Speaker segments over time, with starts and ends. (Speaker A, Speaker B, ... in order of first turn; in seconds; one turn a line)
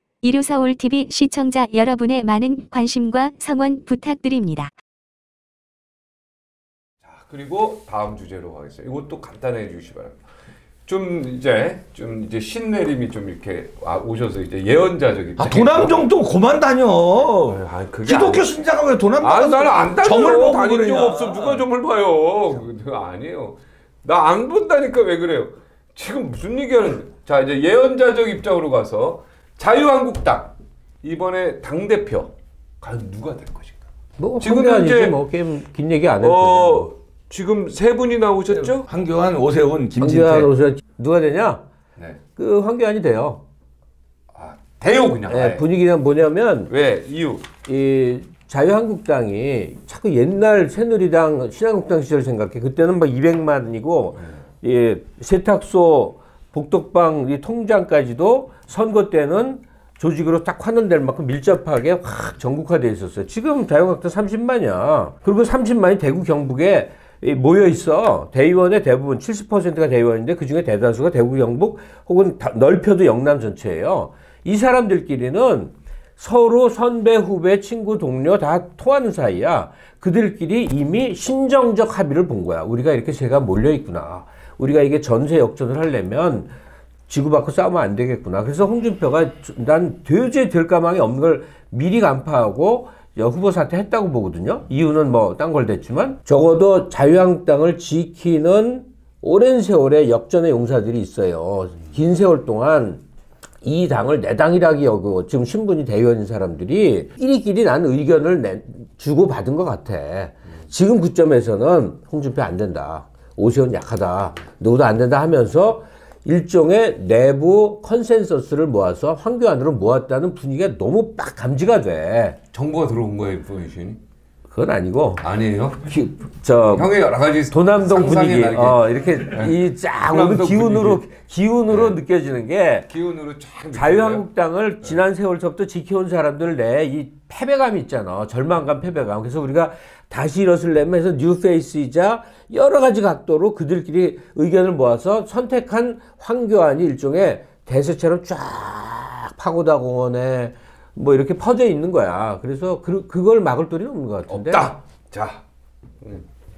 Speaker A: 0.2-4.7
Speaker B: 7.0-10.2
Speaker B: 10.8-16.0
Speaker C: 15.3-21.7
Speaker B: 17.4-18.6
Speaker B: 19.2-33.8
Speaker D: 34.2-36.9
Speaker B: 34.4-35.2
Speaker B: 36.2-38.9
Speaker C: 38.5-40.5
Speaker D: 40.0-41.6
Speaker B: 42.0-42.2
Speaker D: 42.3-43.4
Speaker B: 44.3-45.6
Speaker D: 45.3-46.7
Speaker B: 46.7-47.5
Speaker D: 47.6-86.5
Speaker D: 87.1-103.0
Speaker D: 103.6-122.4
Speaker B: 122.5-124.0
Speaker D: 124.5-125.2
Speaker B: 125.2-125.9
Speaker D: 125.8-126.9
Speaker B: 126.7-129.5
Speaker D: 127.5-132.9
Speaker B: 130.1-131.0
Speaker B: 131.7-132.0
Speaker B: 132.9-134.2
Speaker D: 133.7-154.7
Speaker B: 154.3-155.4